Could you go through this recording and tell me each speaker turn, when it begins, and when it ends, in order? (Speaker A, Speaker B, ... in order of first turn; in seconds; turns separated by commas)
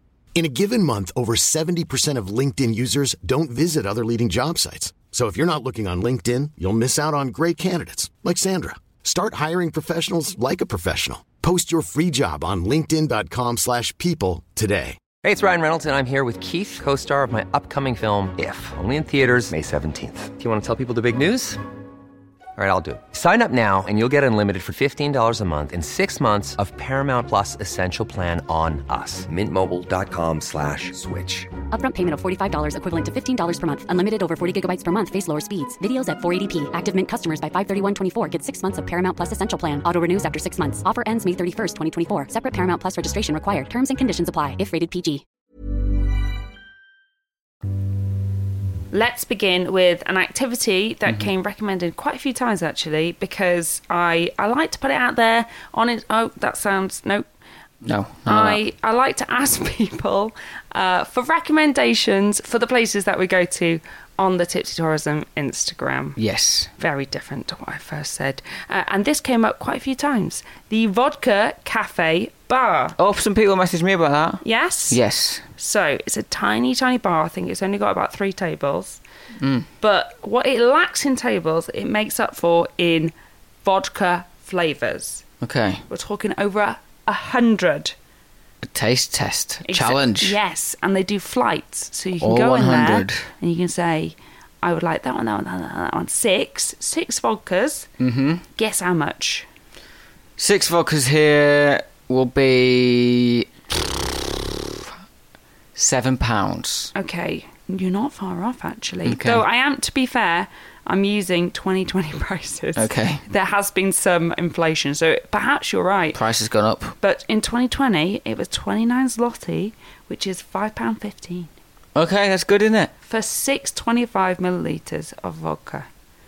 Speaker A: 0.4-15.0, Speaker B: 15.2-21.6, Speaker B: 22.6-31.5, Speaker C: 31.7-45.2, Speaker D: 48.9-57.3, Speaker E: 57.8-58.6, Speaker D: 58.3-66.2, Speaker E: 66.2-66.7, Speaker D: 66.8-73.0, Speaker E: 73.0-75.5, Speaker D: 74.4-75.0, Speaker D: 75.6-79.0, Speaker E: 79.4-79.7, Speaker D: 79.8-83.1, Speaker D: 83.6-85.2, Speaker E: 85.4-85.8, Speaker D: 85.9-87.9, Speaker E: 88.6-90.4, Speaker D: 89.7-97.9, Speaker E: 92.2-93.3, Speaker E: 98.0-98.4, Speaker D: 98.5-99.5, Speaker E: 100.4-103.9, Speaker E: 105.8-106.9, Speaker D: 107.0-116.2, Speaker E: 109.0-109.4, Speaker E: 112.8-113.2, Speaker E: 116.2-117.0, Speaker D: 117.0-121.5, Speaker E: 122.0-122.9, Speaker D: 123.1-125.9